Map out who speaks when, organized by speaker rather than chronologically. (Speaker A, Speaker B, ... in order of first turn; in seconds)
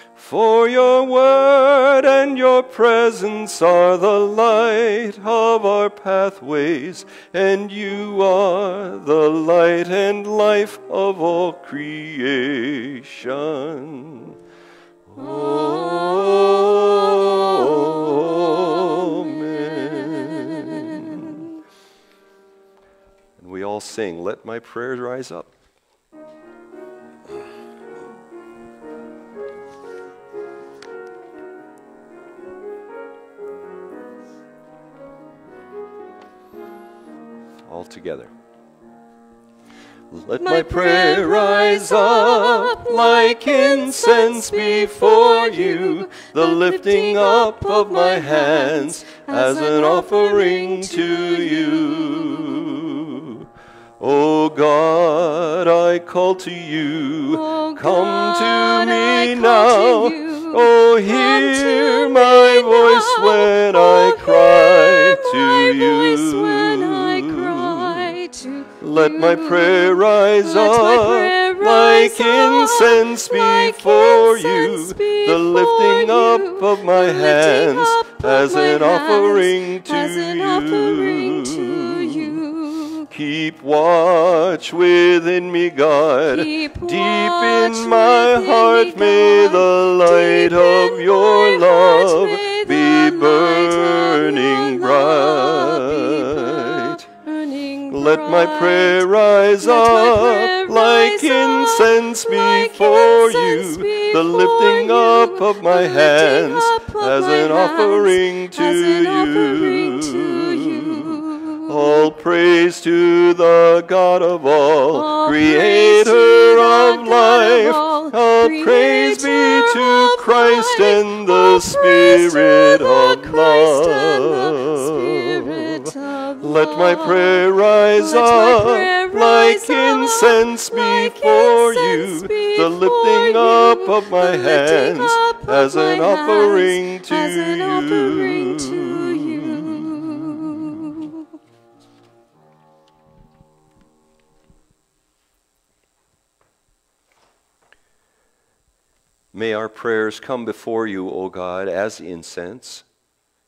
Speaker A: 0.1-14.3, 15.1-21.5, 23.4-25.5, 37.6-38.3, 40.1-53.5, 54.0-68.1, 68.8-82.4, 83.1-97.1, 97.9-140.8, 149.3-152.8
Speaker B: 15.2-18.9, 40.4-52.7, 57.3-83.1, 86.3-111.7, 114.9-141.3